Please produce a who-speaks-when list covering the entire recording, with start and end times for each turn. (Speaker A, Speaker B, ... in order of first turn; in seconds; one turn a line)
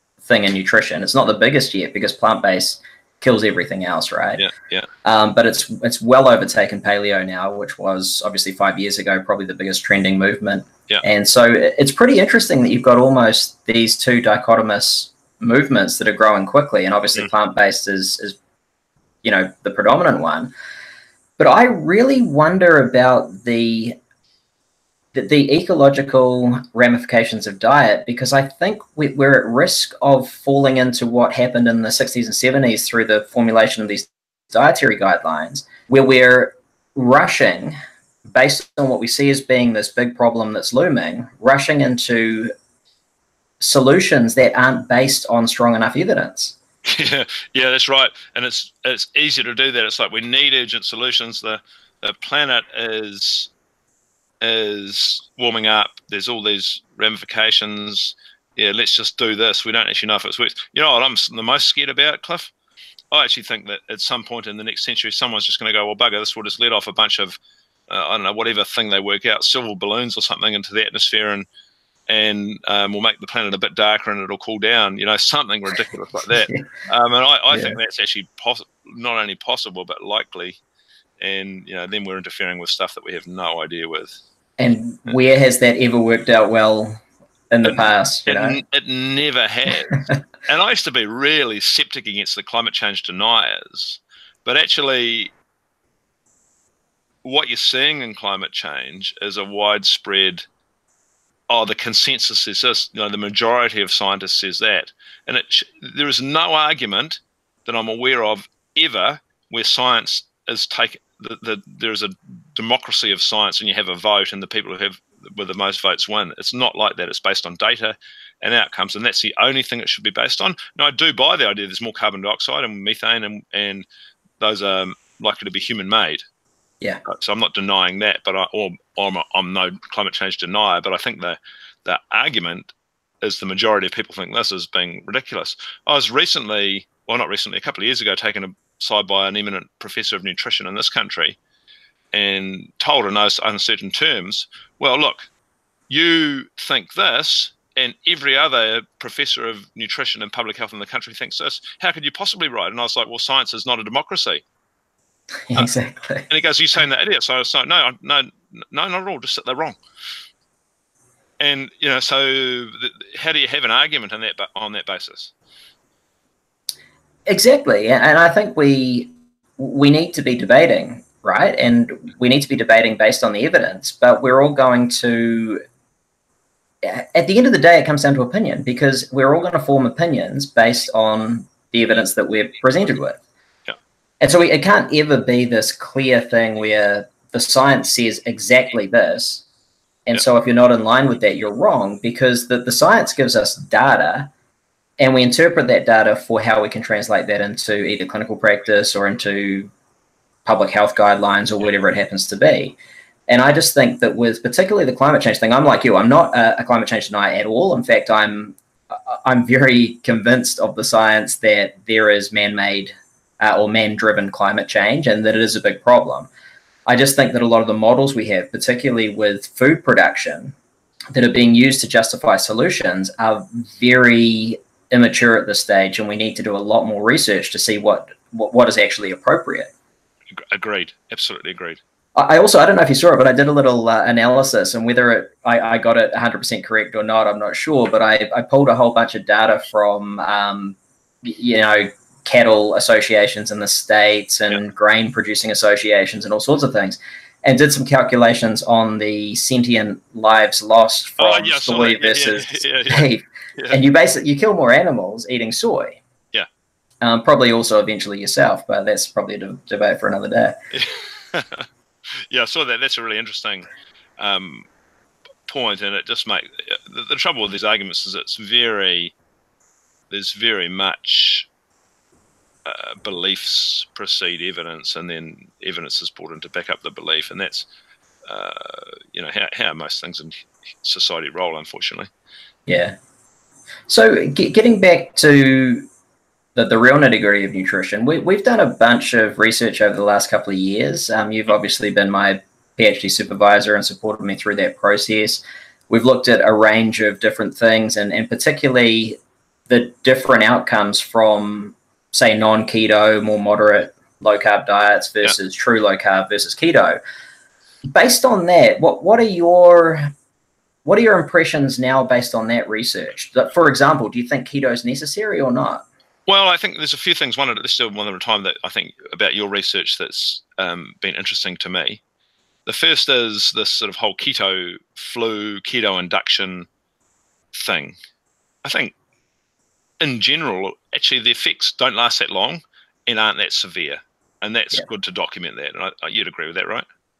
Speaker A: 0.2-4.5
Speaker B: 4.4-4.9
Speaker A: 5.0-18.4
Speaker A: 19.2-20.5
Speaker A: 21.4-24.0
Speaker A: 25.1-42.5
Speaker A: 43.6-46.5
Speaker B: 46.9-53.5
Speaker B: 54.4-62.5
Speaker B: 63.1-71.5
Speaker B: 72.1-80.6
Speaker B: 81.2-84.2
Speaker A: 84.6-88.6
Speaker B: 87.7-95.3
Speaker B: 97.2-100.5
Speaker B: 101.5-123.8
Speaker B: 124.4-126.2
Speaker B: 127.0-141.4
Speaker B: 142.1-145.3
Speaker B: 145.9-154.4
Speaker A: 155.5-156.3
Speaker B: 156.3-159.8
Speaker B: 161.4-165.3
Speaker A: 167.3-175.6
Speaker A: 176.8-183.2
Speaker A: 184.2-189.4
Speaker A: 190.1-194.3
Speaker A: 195.0-199.7
Speaker A: 200.4-216.3
Speaker A: 216.9-220.6
Speaker A: 221.1-229.7
Speaker B: 230.3-231.8
Speaker A: 232.2-256.0
Speaker B: 251.2-253.8
Speaker A: 257.0-260.6
Speaker B: 260.7-263.7
Speaker B: 264.2-264.7
Speaker B: 265.5-269.1
Speaker B: 270.1-271.5
Speaker B: 272.6-277.7
Speaker B: 278.2-282.1
Speaker A: 282.7-283.0
Speaker A: 283.9-285.9
Speaker A: 286.6-307.0
Speaker A: 307.9-310.1
Speaker A: 310.9-315.9
Speaker B: 316.3-322.0
Speaker B: 322.7-326.7
Speaker B: 327.5-328.0
Speaker B: 328.6-328.9
Speaker B: 330.0-336.9